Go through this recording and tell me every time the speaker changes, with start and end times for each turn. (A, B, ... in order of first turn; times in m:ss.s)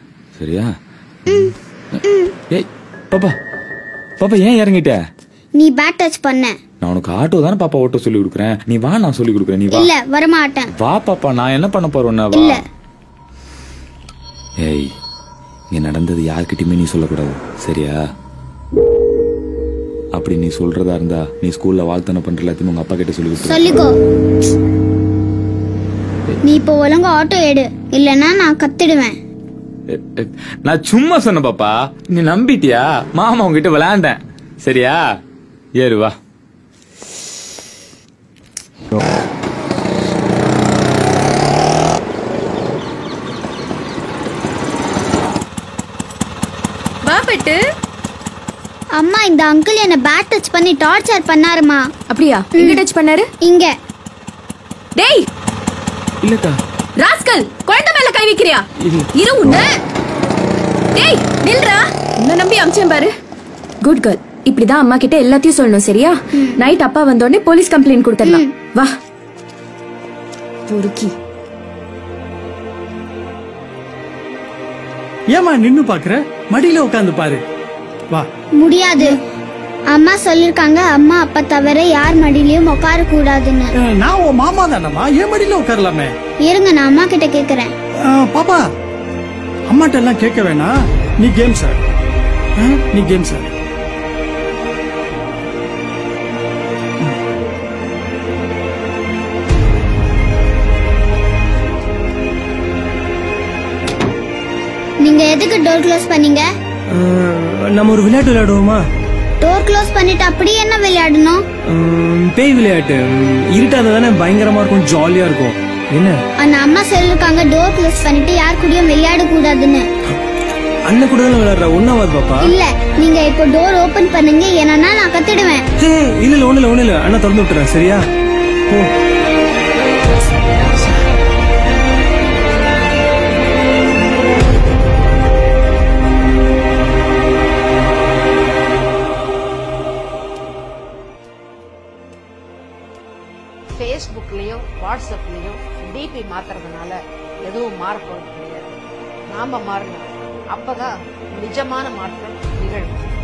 0:00.4-0:00.7 A
0:01.3-0:01.5 B
0:02.0-0:02.3 B
0:02.5-0:03.3 A
0:04.2-0:05.0 A
0:05.6-0:06.5 B
0:06.8-0:09.9 A
0:09.7-0:10.7 B
0:10.8-0:12.6 A
0:12.3-0:12.6 B
0:14.6-0:14.9 A
0:15.7-0:18.0 A
0:20.1-0:23.7 A
0:23.4-0:23.9 B
0:26.4-0:29.1 B
0:29.9-0:35.0 A
0:35.8-0:36.1 A
0:47.0-0:47.6 C
0:49.0-0:51.8 B
0:52.1-0:53.3 C
0:52.6-0:52.8 B
0:53.4-0:53.7 B
0:55.0-0:55.2 C
0:56.2-0:56.6 A
0:57.0-0:59.8 C
1:00.9-1:03.1 C
1:03.8-1:08.9 C
1:08.2-1:08.5 B
1:10.7-1:11.1 C
1:15.3-1:17.4 D
1:18.6-1:19.2 B
1:19.9-1:23.7 B
1:23.8-1:26.1 D
1:26.4-1:27.7 B
1:28.1-1:28.6 D
1:29.7-1:31.8 D
1:32.6-1:33.4 D
1:45.0-1:46.5 B
1:46.9-1:48.8 D
1:49.4-1:51.4 B
1:51.7-1:56.2 D
1:56.4-1:59.8 B
2:00.9-2:02.5 D
2:02.4-2:05.6 B
2:05.8-2:08.0 D
2:23.8-2:28.8 E
2:29.3-2:32.9 E